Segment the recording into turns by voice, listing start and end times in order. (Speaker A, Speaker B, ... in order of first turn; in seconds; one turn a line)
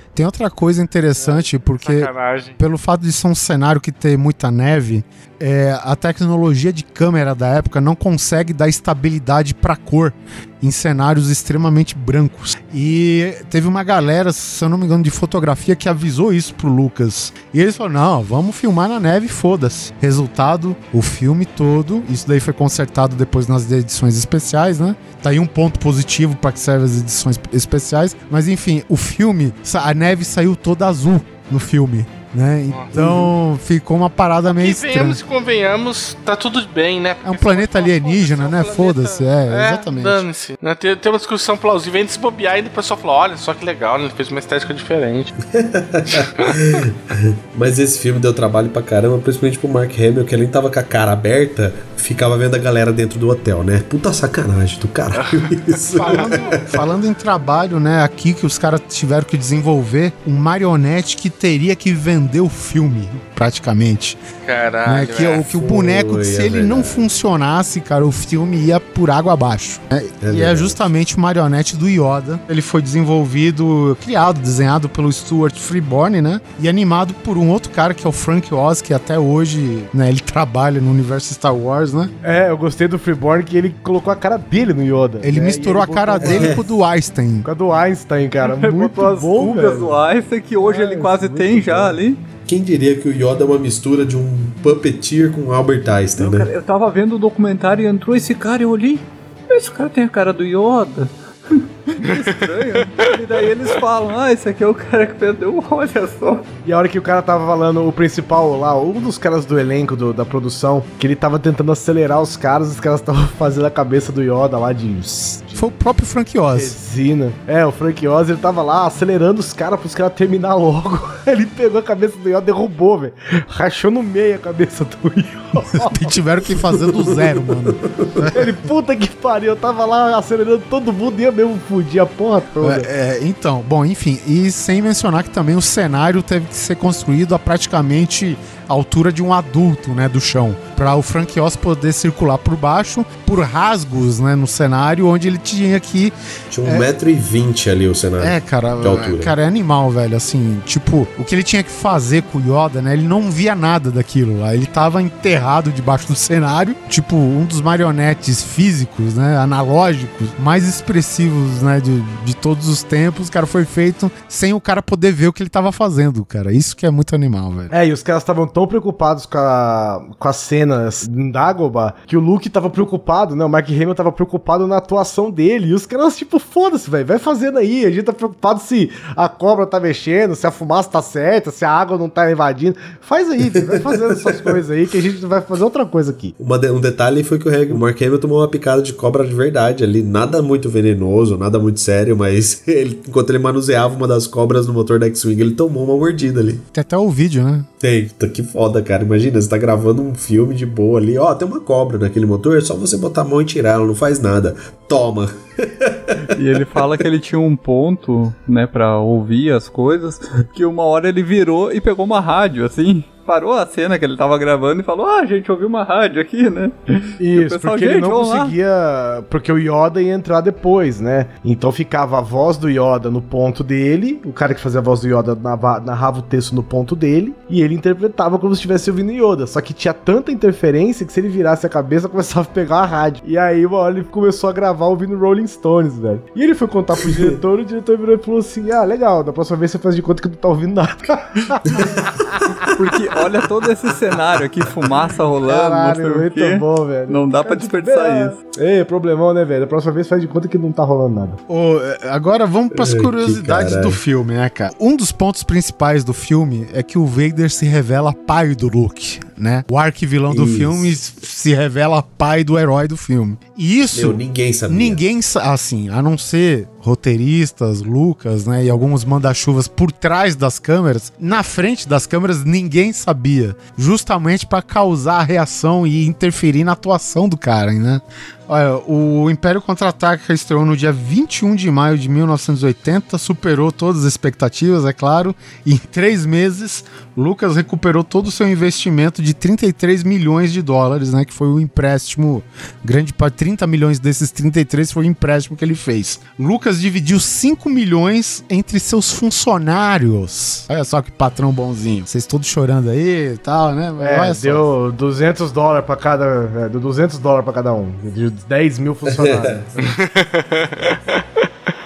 Speaker A: 0.1-35.2
Speaker B: 1.2-2.6
Speaker B: 32.7-33.2
Speaker B: 34.5-45.3
Speaker A: 37.2-40.2
Speaker C: 45.5-56.5
Speaker B: 46.1-46.6
Speaker B: 55.1-55.5
Speaker A: 55.9-64.2
Speaker B: 64.4-65.5
Speaker A: 64.8-82.1
Speaker C: 65.5-67.0
Speaker C: 70.2-70.8
Speaker D: 82.2-86.6
Speaker A: 85.2-87.5
Speaker C: 86.2-86.6
Speaker D: 87.4-90.0
Speaker E: 88.4-92.2
Speaker D: 90.6-91.8
Speaker C: 91.4-91.9
Speaker C: 92.5-96.5
Speaker E: 96.2-106.5
Speaker B: 102.0-102.4
Speaker D: 106.6-115.7
Speaker A: 115.5-116.8
Speaker D: 116.5-126.1
Speaker A: 125.7-128.3
Speaker C: 126.9-128.3
Speaker D: 128.3-132.9
Speaker A: 132.6-146.9
Speaker C: 146.5-149.3
Speaker A: 148.2-167.7
Speaker D: 167.7-186.3
Speaker C: 183.8-184.5
Speaker C: 186.4-196.6
Speaker A: 196.7-197.7
Speaker C: 197.8-206.3
Speaker E: 206.3-218.6
Speaker D: 217.2-242.2
Speaker C: 241.7-242.4
Speaker E: 242.7-248.4
Speaker D: 245.4-251.4
Speaker A: 251.5-264.2
Speaker C: 252.7-254.0
Speaker C: 260.3-260.9
Speaker C: 263.9-265.0
Speaker A: 264.7-304.7
Speaker D: 304.0-309.7
Speaker C: 309.1-309.8
Speaker B: 309.8-311.5